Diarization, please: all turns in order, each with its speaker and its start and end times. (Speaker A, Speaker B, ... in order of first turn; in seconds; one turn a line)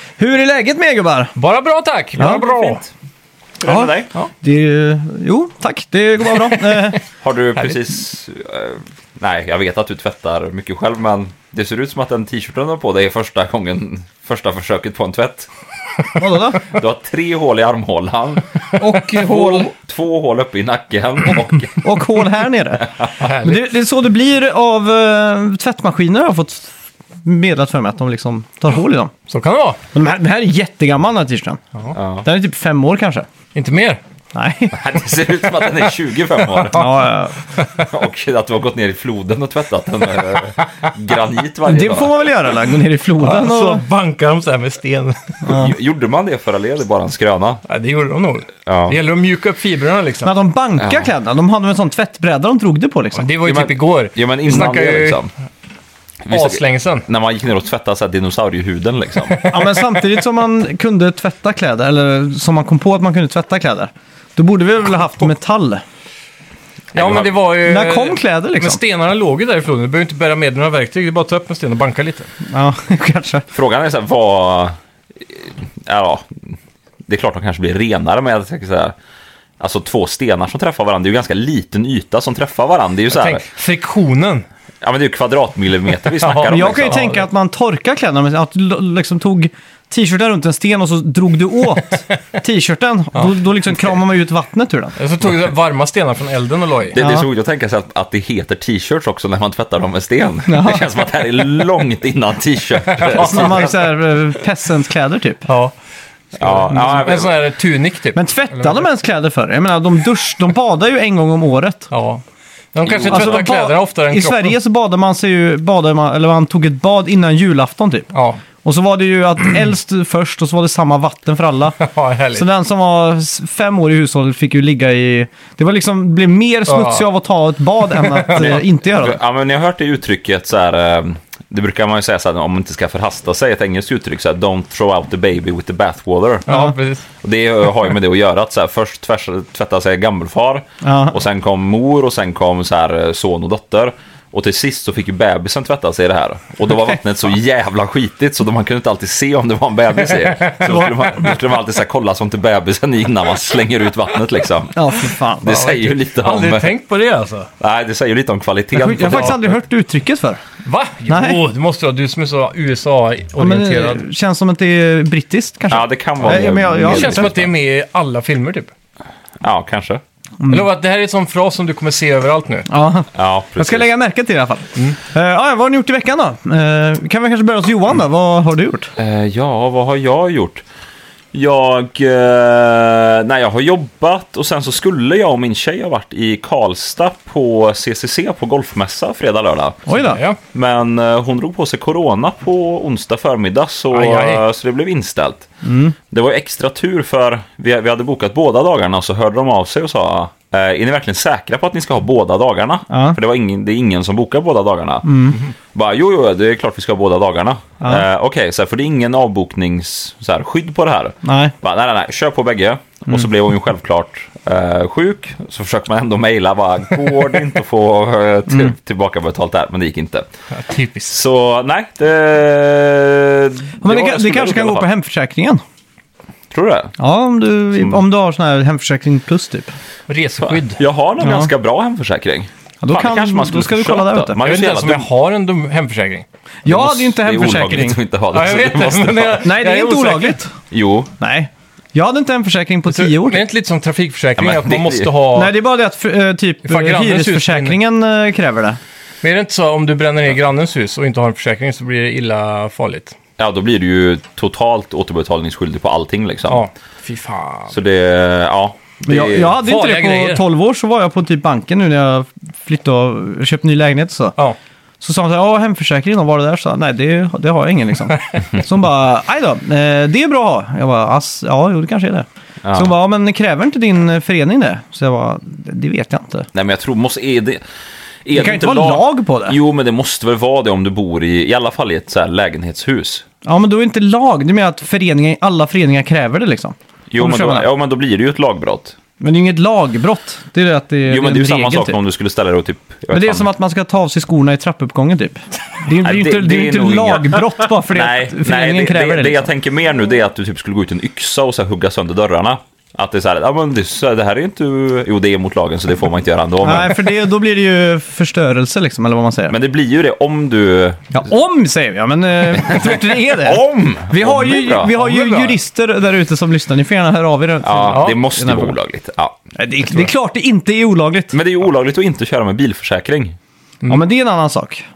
Speaker A: 0.2-1.3
Speaker B: 1.4-2.8
Speaker A: 2.2-2.5
Speaker C: 2.2-2.7
Speaker C: 3.6-4.1
Speaker A: 3.6-7.0
Speaker B: 6.6-7.0
Speaker C: 7.2-15.5
Speaker A: 16.2-16.6
Speaker C: 16.6-21.9
Speaker A: 18.8-19.7
Speaker A: 21.8-26.7
Speaker B: 23.2-23.7
Speaker A: 27.2-29.1
Speaker B: 29.3-29.8
Speaker A: 29.9-31.6
Speaker C: 31.9-32.3
Speaker A: 32.2-33.3
Speaker B: 33.5-34.0
Speaker A: 34.3-34.8
Speaker C: 34.7-37.0
Speaker B: 36.5-36.8
Speaker A: 36.7-37.4
Speaker B: 37.5-37.9
Speaker C: 37.7-42.1
Speaker B: 40.6-40.9
Speaker A: 41.6-43.8
Speaker B: 43.2-45.2
Speaker C: 45.5-47.6
Speaker A: 45.5-45.7
Speaker B: 47.7-50.3
Speaker C: 48.7-49.0
Speaker A: 50.2-53.3
Speaker B: 53.1-55.2
Speaker C: 53.4-55.3
Speaker C: 56.3-59.5
Speaker B: 56.3-57.1
Speaker A: 59.5-65.8
Speaker C: 66.9-67.4
Speaker B: 66.9-72.3
Speaker A: 67.6-68.8
Speaker A: 72.5-73.5
Speaker C: 73.5-74.8
Speaker C: 75.3-76.5
Speaker C: 77.1-79.0
Speaker C: 79.6-83.4
Speaker B: 83.1-84.5
Speaker C: 84.8-87.0
Speaker B: 86.2-87.2
Speaker A: 86.5-95.0
Speaker B: 95.0-97.0
Speaker C: 96.9-103.8
Speaker A: 97.0-97.3
Speaker A: 100.5-101.0
Speaker B: 102.8-103.6
Speaker A: 103.1-105.5
Speaker B: 105.5-105.7
Speaker C: 106.4-107.3
Speaker B: 106.4-108.8
Speaker A: 108.2-111.9
Speaker B: 111.9-112.2
Speaker B: 112.7-114.5
Speaker C: 112.9-113.5
Speaker A: 113.1-118.1
Speaker B: 118.1-118.4
Speaker A: 118.6-121.8
Speaker B: 121.8-122.5
Speaker A: 122.3-129.2
Speaker B: 126.7-127.1
Speaker B: 128.0-128.6
Speaker C: 128.4-136.5
Speaker B: 136.5-137.1
Speaker A: 136.5-136.7
Speaker C: 137.2-156.7
Speaker A: 140.8-141.2
Speaker B: 150.2-151.4
Speaker A: 154.8-155.6
Speaker B: 155.5-157.5
Speaker C: 157.6-159.6
Speaker A: 158.8-160.4
Speaker B: 160.7-164.0
Speaker A: 161.1-161.4
Speaker A: 163.4-167.3
Speaker C: 165.7-167.5
Speaker B: 166.9-168.7
Speaker C: 169.4-170.0
Speaker A: 170.4-170.7
Speaker B: 170.5-172.7
Speaker A: 172.7-178.9
Speaker C: 173.2-173.9
Speaker C: 179.0-180.6
Speaker C: 181.3-189.9
Speaker A: 189.9-190.2
Speaker B: 189.9-190.4
Speaker C: 190.4-195.5
Speaker B: 193.9-194.4
Speaker A: 195.6-195.9
Speaker C: 196.1-220.3
Speaker A: 202.9-203.2
Speaker A: 205.1-205.4
Speaker A: 207.8-208.1
Speaker A: 211.2-211.5
Speaker B: 220.5-221.2
Speaker C: 221.1-224.9
Speaker A: 223.8-225.6
Speaker C: 226.5-226.9
Speaker A: 227.0-229.7
Speaker B: 230.1-230.8
Speaker C: 230.4-235.1
Speaker A: 231.2-231.5
Speaker A: 232.8-234.4
Speaker B: 234.4-236.2
Speaker A: 236.7-238.0
Speaker C: 236.7-239.4
Speaker B: 238.3-240.4
Speaker A: 239.4-240.5
Speaker C: 240.7-241.1
Speaker A: 241.2-243.4
Speaker B: 242.9-245.5
Speaker C: 244.4-245.1
Speaker A: 245.3-248.8
Speaker B: 246.6-247.8
Speaker B: 249.2-253.2
Speaker C: 253.4-256.6
Speaker B: 256.5-257.7
Speaker C: 257.7-259.6
Speaker A: 259.1-264.4
Speaker B: 259.6-260.4
Speaker A: 265.0-276.5
Speaker C: 272.6-272.9
Speaker C: 276.5-277.6
Speaker C: 278.2-283.2
Speaker A: 278.4-279.6
Speaker A: 283.4-287.7
Speaker C: 287.1-289.0
Speaker A: 289.2-292.0
Speaker C: 291.1-293.5
Speaker A: 293.1-299.5
Speaker C: 296.0-307.1
Speaker A: 306.6-309.5
Speaker C: 309.5-311.2
Speaker A: 311.1-318.7
Speaker C: 312.5-315.0
Speaker B: 315.0-315.5
Speaker C: 317.6-320.0
Speaker B: 317.9-318.2
Speaker A: 319.6-321.4
Speaker C: 321.3-323.4
Speaker A: 323.9-324.9